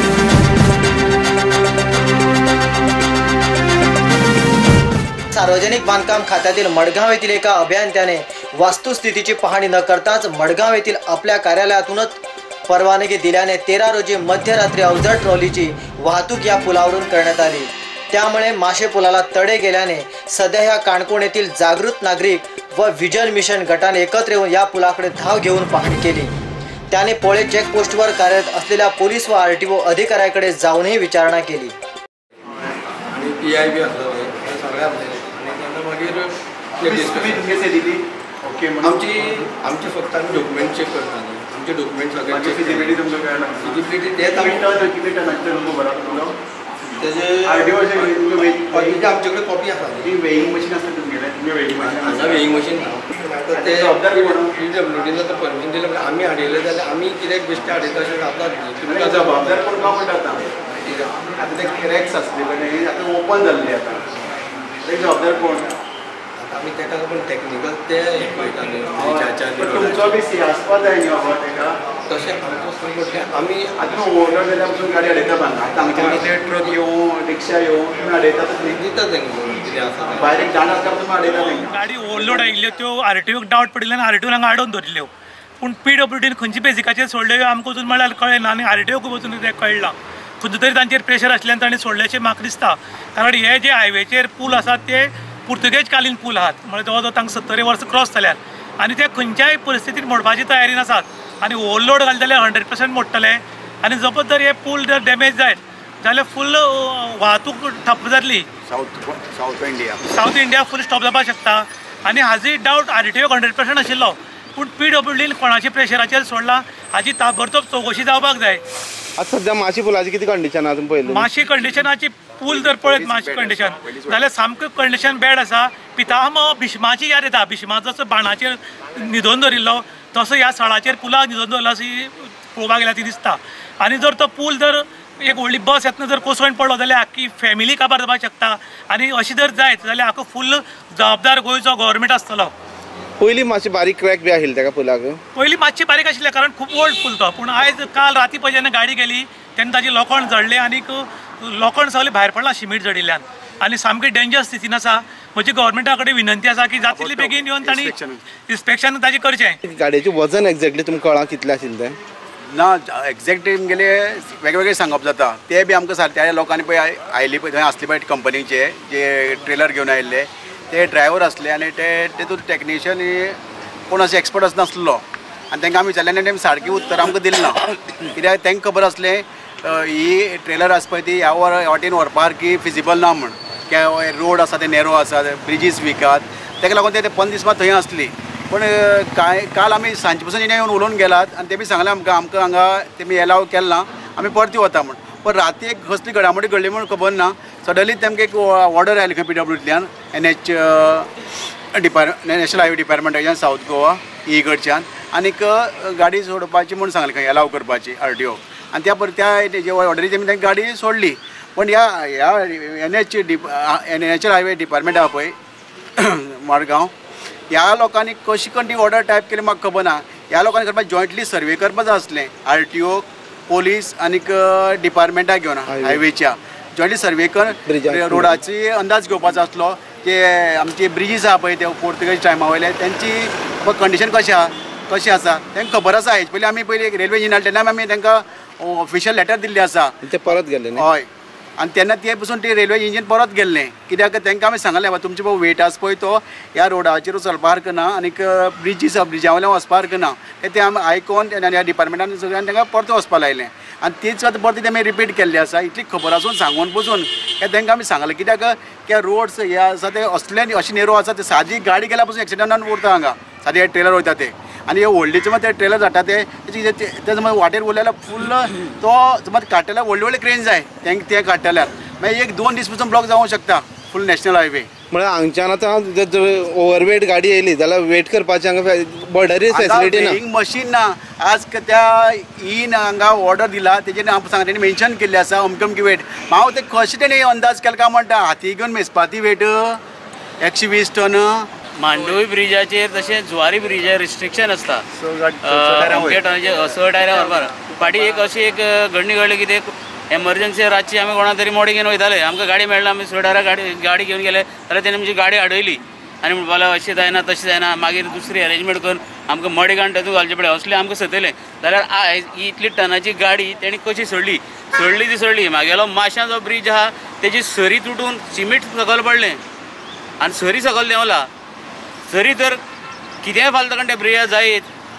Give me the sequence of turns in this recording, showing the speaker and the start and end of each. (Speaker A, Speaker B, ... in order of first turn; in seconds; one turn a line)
Speaker A: 5.3-26.4
Speaker A: 26.9-31.7
Speaker B: 33.1-37.6
Speaker C: 36.8-39.4
Speaker B: 38.8-43.0
Speaker C: 42.3-46.4
Speaker B: 43.6-44.7
Speaker B: 47.0-47.9
Speaker C: 47.4-49.1
Speaker B: 48.7-50.1
Speaker C: 50.0-52.5
Speaker B: 51.8-59.9
Speaker C: 53.5-54.6
Speaker C: 58.8-60.4
Speaker B: 60.8-61.2
Speaker C: 61.3-64.0
Speaker C: 64.8-65.7
Speaker B: 66.4-70.2
Speaker C: 69.0-71.8
Speaker B: 72.1-73.9
Speaker C: 73.8-78.8
Speaker B: 76.0-76.2
Speaker B: 78.7-80.7
Speaker C: 80.1-82.5
Speaker D: 81.4-85.1
Speaker D: 85.6-108.5
Speaker C: 108.7-110.0
Speaker D: 110.1-118.6
Speaker E: 119.2-121.3
Speaker D: 121.1-142.5
Speaker C: 122.5-124.2
Speaker E: 143.2-145.2
Speaker D: 145.4-157.9
Speaker C: 156.8-158.2
Speaker D: 158.5-159.6
Speaker E: 159.6-162.0
Speaker C: 162.5-173.4
Speaker C: 173.9-201.1
Speaker C: 201.7-215.3
Speaker C: 216.0-216.9
Speaker C: 217.5-240.1
Speaker E: 225.7-226.0
Speaker E: 227.7-228.4
Speaker E: 240.0-240.9
Speaker C: 240.8-241.1
Speaker C: 241.6-274.7
Speaker E: 274.9-280.2
Speaker C: 279.5-289.8
Speaker C: 290.4-291.5
Speaker F: 291.8-294.8
Speaker C: 295.0-296.2
Speaker F: 295.4-319.4
Speaker F: 320.2-321.3
Speaker F: 322.1-322.6
Speaker F: 323.2-324.7